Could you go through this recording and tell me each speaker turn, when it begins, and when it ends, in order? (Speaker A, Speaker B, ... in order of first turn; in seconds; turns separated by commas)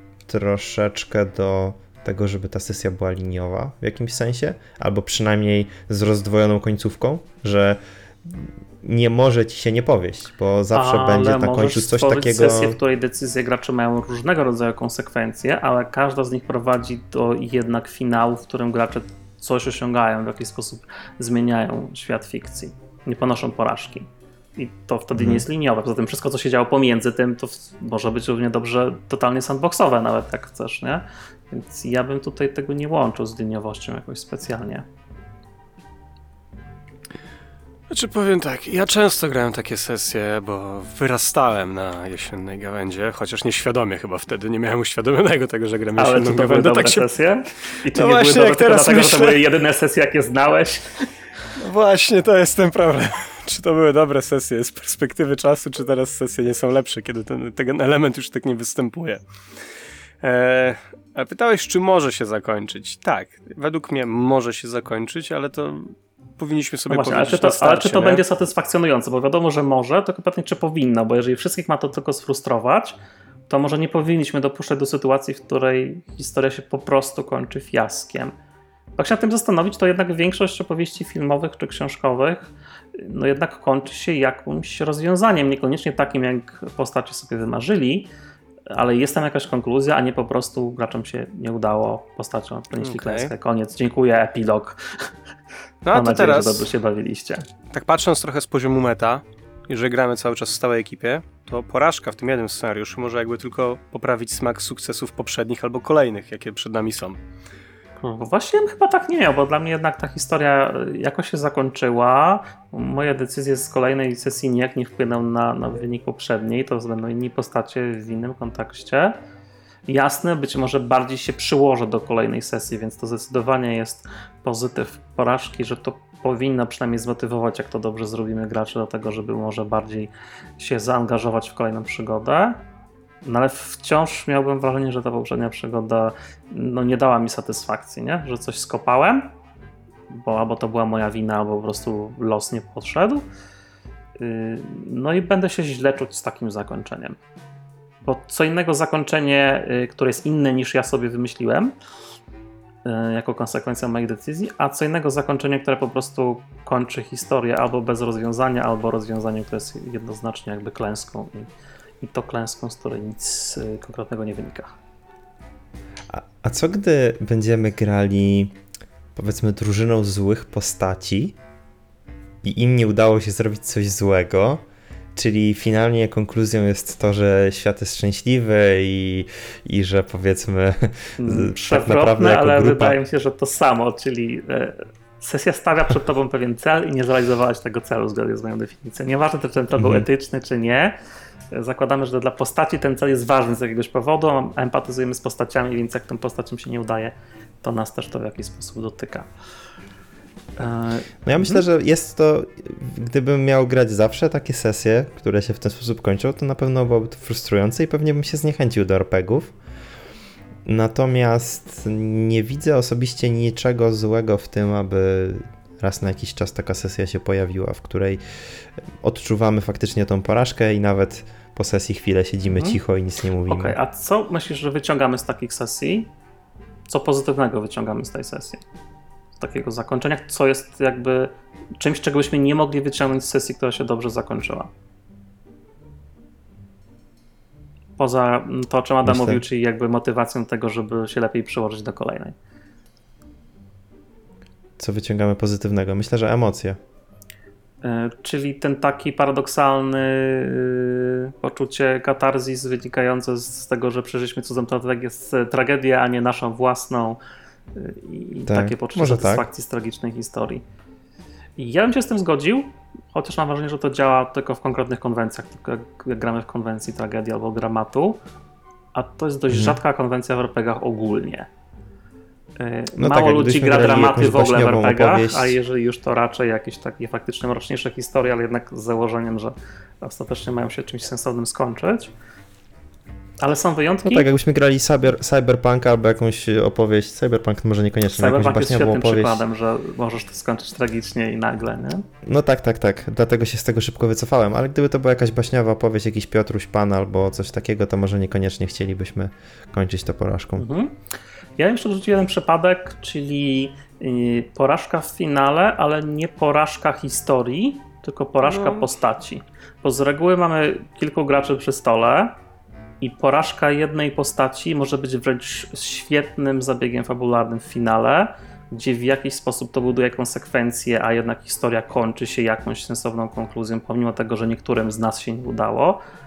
Speaker A: 0.3-12.8, Speaker B: 10.7-34.9, Speaker A: 25.1-25.4, Speaker C: 37.9-47.1, Speaker B: 46.0-51.1, Speaker C: 47.9-49.4, Speaker C: 51.6-59.2, Speaker C: 60.2-68.2, Speaker B: 66.9-73.0, Speaker B: 73.5-78.3, Speaker B: 79.0-88.1, Speaker B: 88.7-95.1, Speaker C: 92.8-93.3, Speaker C: 95.8-96.7, Speaker B: 95.9-97.4, Speaker C: 97.7-107.2, Speaker B: 108.0-119.2, Speaker B: 119.9-132.6, Speaker B: 133.2-139.3, Speaker B: 140.1-143.2, Speaker B: 144.2-147.2, Speaker B: 148.0-151.7, Speaker B: 152.8-164.8, Speaker A: 166.1-168.6, Speaker A: 169.1-171.3, Speaker A: 172.4-174.6, Speaker A: 175.1-183.0, Speaker B: 181.2-190.9, Speaker A: 189.8-190.1, Speaker B: 191.5-199.3, Speaker B: 200.6-201.6, Speaker A: 201.2-209.5, Speaker A: 210.7-218.2, Speaker A: 219.0-223.8, Speaker B: 222.5-222.8, Speaker B: 223.5-226.1, Speaker B: 226.9-228.6, Speaker B: 229.4-234.7, Speaker B: 238.0-242.3, Speaker A: 239.0-239.4, Speaker A: 244.8-246.8, Speaker B: 247.8-257.2, Speaker B: 257.7-260.6, Speaker A: 258.5-259.4, Speaker B: 261.6-268.2, Speaker B: 268.9-271.5, Speaker A: 269.5-269.8, Speaker B: 272.6-282.1, Speaker A: 273.0-275.6, Speaker B: 283.4-284.3, Speaker A: 284.1-289.4, Speaker B: 288.1-292.1, Speaker A: 292.2-300.7, Speaker B: 300.6-300.9, Speaker B: 301.6-312.4, Speaker C: 308.4-308.8, Speaker B: 313.0-326.0